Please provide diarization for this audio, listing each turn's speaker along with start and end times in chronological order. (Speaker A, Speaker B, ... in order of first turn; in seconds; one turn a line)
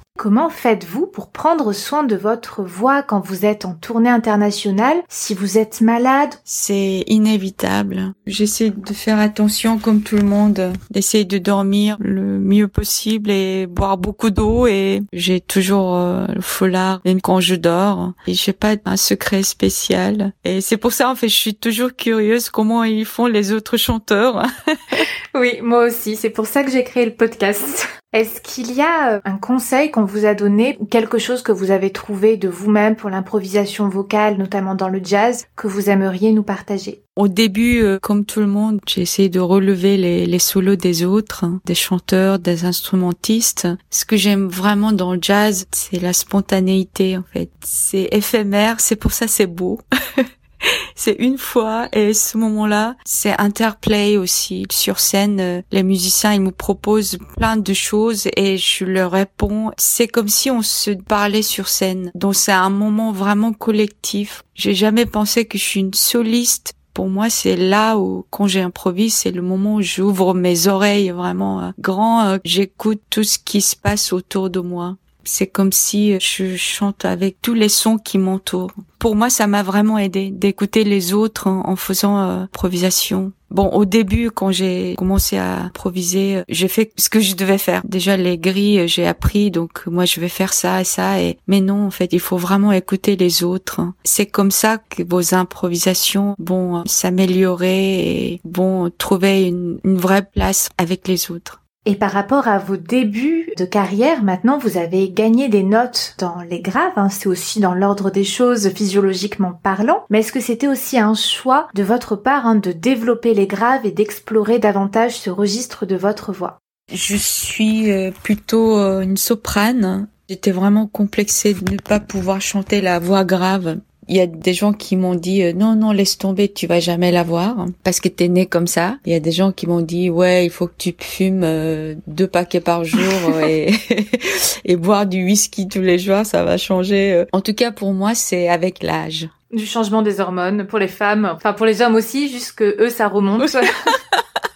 Speaker A: 0.2-6.4
Speaker B: 6.5-25.1
Speaker A: 25.3-37.0
Speaker B: 37.1-101.6
Speaker A: 101.8-116.6
Speaker B: 116.9-139.3
Speaker A: 139.5-143.9